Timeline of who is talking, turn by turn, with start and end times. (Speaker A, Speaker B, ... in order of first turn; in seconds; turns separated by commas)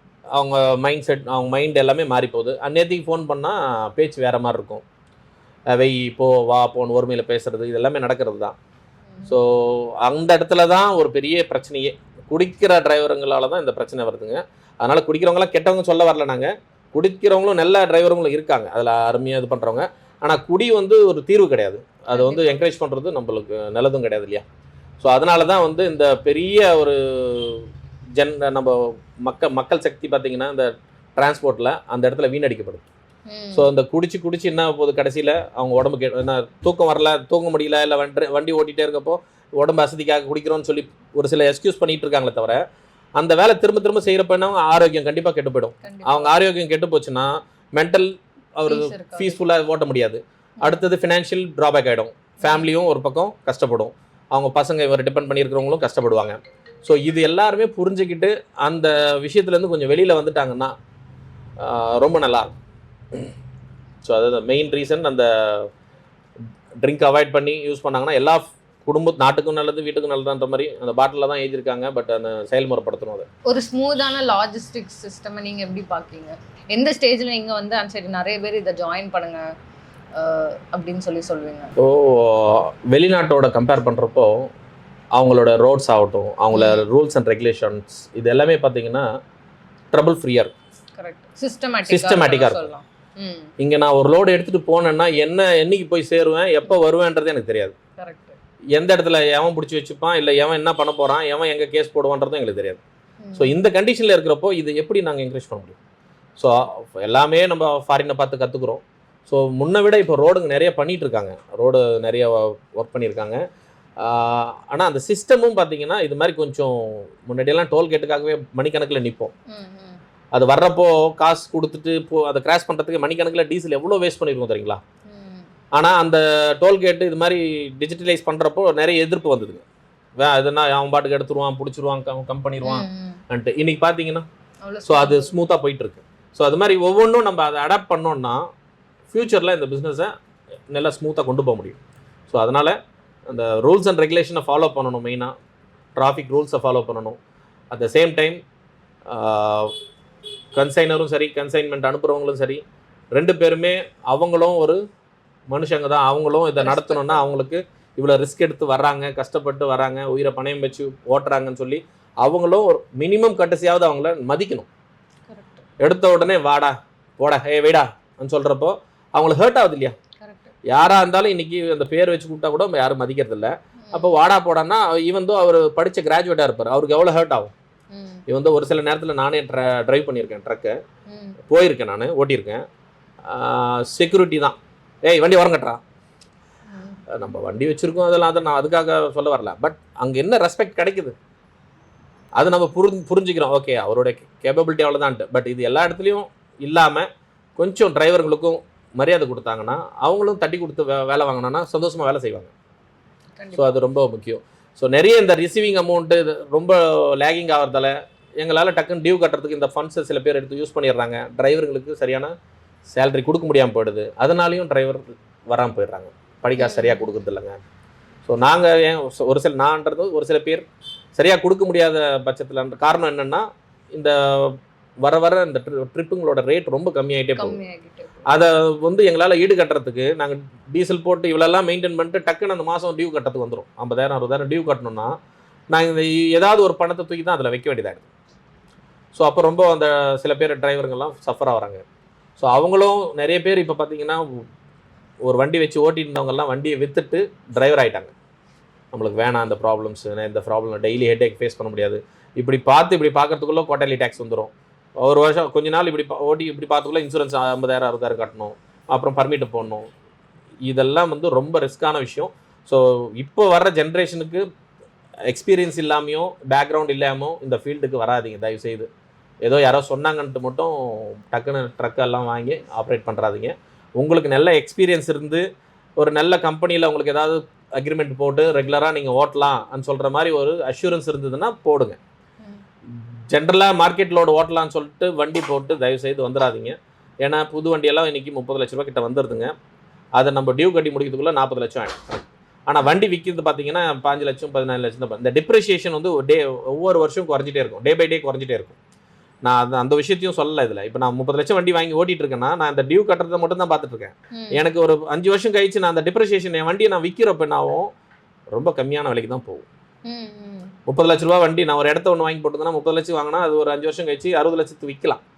Speaker A: 0.3-4.8, Speaker A: 5.7-8.6, Speaker B: 9.1-9.4, Speaker A: 9.3-24.4, Speaker B: 22.1-22.6, Speaker A: 25.0-27.7, Speaker A: 28.2-32.8, Speaker B: 33.3-33.7, Speaker A: 33.5-42.6, Speaker A: 43.2-60.7, Speaker B: 45.8-46.3, Speaker B: 48.7-49.4, Speaker B: 52.4-52.7, Speaker A: 61.6-62.5, Speaker A: 64.0-65.7, Speaker A: 66.8-73.3, Speaker B: 73.5-79.4, Speaker B: 80.2-81.7, Speaker A: 81.8-84.5, Speaker A: 85.2-89.1, Speaker B: 86.5-86.8, Speaker A: 89.9-90.5, Speaker B: 91.0-93.5, Speaker A: 91.9-92.7, Speaker A: 93.6-97.8, Speaker B: 98.0-98.4, Speaker A: 98.8-102.8, Speaker B: 103.2-103.6, Speaker A: 103.4-105.8, Speaker A: 106.4-113.4, Speaker A: 114.0-119.3, Speaker B: 119.5-120.0, Speaker A: 120.3-124.8, Speaker B: 125.1-125.5, Speaker A: 125.8-129.6, Speaker A: 130.2-134.3, Speaker B: 132.6-133.2, Speaker B: 134.6-135.3, Speaker A: 134.9-138.4, Speaker A: 139.1-140.1, Speaker A: 140.7-142.8, Speaker A: 143.3-145.3, Speaker A: 146.0-147.2, Speaker A: 147.7-148.4, Speaker A: 149.1-149.7, Speaker A: 150.6-152.6, Speaker A: 153.2-154.8, Speaker A: 155.5-164.7, Speaker B: 156.6-157.3, Speaker B: 165.3-165.7, Speaker A: 165.8-170.0, Speaker B: 170.2-170.6, Speaker A: 170.7-177.5, Speaker B: 173.8-174.2, Speaker B: 177.9-178.2, Speaker A: 178.3-180.8, Speaker B: 181.1-181.4, Speaker A: 181.5-182.6, Speaker A: 183.2-185.8, Speaker B: 186.7-187.0, Speaker A: 187.1-191.2, Speaker A: 192.4-202.5, Speaker B: 203.4-203.8, Speaker A: 203.6-212.3, Speaker A: 213.0-217.6, Speaker B: 216.6-217.1, Speaker A: 218.2-220.7, Speaker A: 221.2-227.6, Speaker B: 227.4-228.3, Speaker A: 228.3-235.1, Speaker A: 235.7-238.1, Speaker A: 239.2-241.8, Speaker A: 242.4-244.4, Speaker A: 245.3-248.1, Speaker A: 248.9-259.9, Speaker A: 260.7-264.4, Speaker A: 265.3-268.9, Speaker A: 269.4-275.4, Speaker A: 276.0-282.0, Speaker A: 283.3-289.5, Speaker A: 290.2-298.8, Speaker A: 299.4-307.9, Speaker B: 304.3-304.6, Speaker A: 308.5-309.6, Speaker B: 310.1-310.8, Speaker A: 310.9-315.2